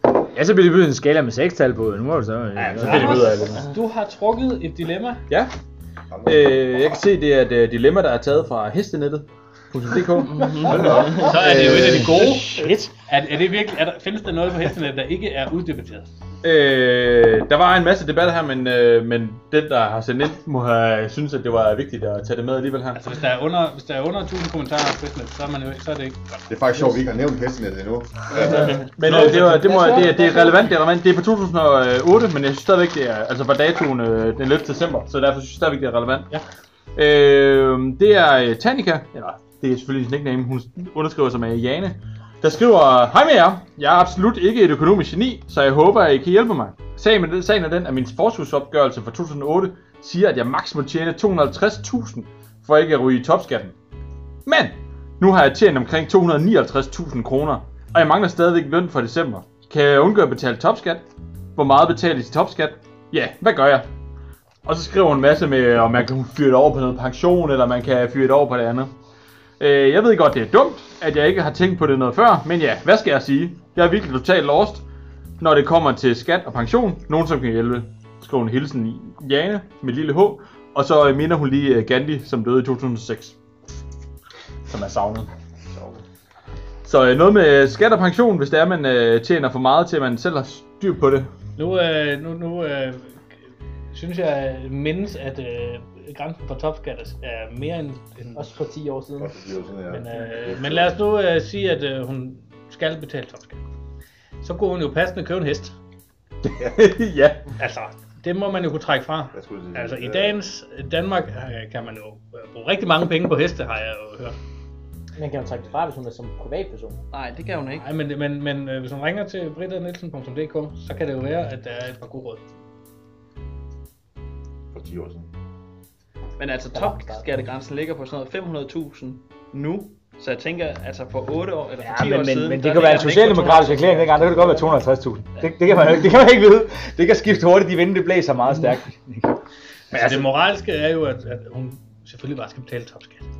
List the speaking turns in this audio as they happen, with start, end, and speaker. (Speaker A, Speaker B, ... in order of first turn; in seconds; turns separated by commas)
Speaker A: 0.3-3.3, Speaker B: 2.5-3.6, Speaker C: 2.8-5.2, Speaker D: 6.1-6.6, Speaker B: 6.2-10.5, Speaker E: 10.3-11.3, Speaker D: 10.7-11.3, Speaker C: 11.1-16.1, Speaker B: 11.2-12.2, Speaker A: 11.9-12.9, Speaker B: 16.4-23.0, Speaker C: 22.9-27.0, Speaker D: 26.5-28.9, Speaker C: 28.4-30.7, Speaker B: 28.8-36.3, Speaker B: 36.9-53.7, Speaker B: 54.5-61.0, Speaker B: 61.5-63.8, Speaker B: 64.6-68.9, Speaker B: 69.6-74.8, Speaker B: 75.4-83.3, Speaker B: 84.7-85.3, Speaker B: 86.8-91.3, Speaker C: 91.6-93.2, Speaker C: 93.9-98.5, Speaker F: 98.3-99.4, Speaker D: 99.2-100.9, Speaker C: 99.9-103.6, Speaker C: 104.4-105.7, Speaker B: 106.4-107.4, Speaker C: 107.5-114.3, Speaker D: 109.3-110.4, Speaker F: 115.2-117.0, Speaker E: 117.1-117.8, Speaker C: 117.8-122.4, Speaker D: 124.7-125.3, Speaker E: 126.4-133.8, Speaker F: 126.7-127.4, Speaker A: 131.8-139.3, Speaker F: 133.7-134.8, Speaker A: 139.9-140.3, Speaker C: 139.9-143.3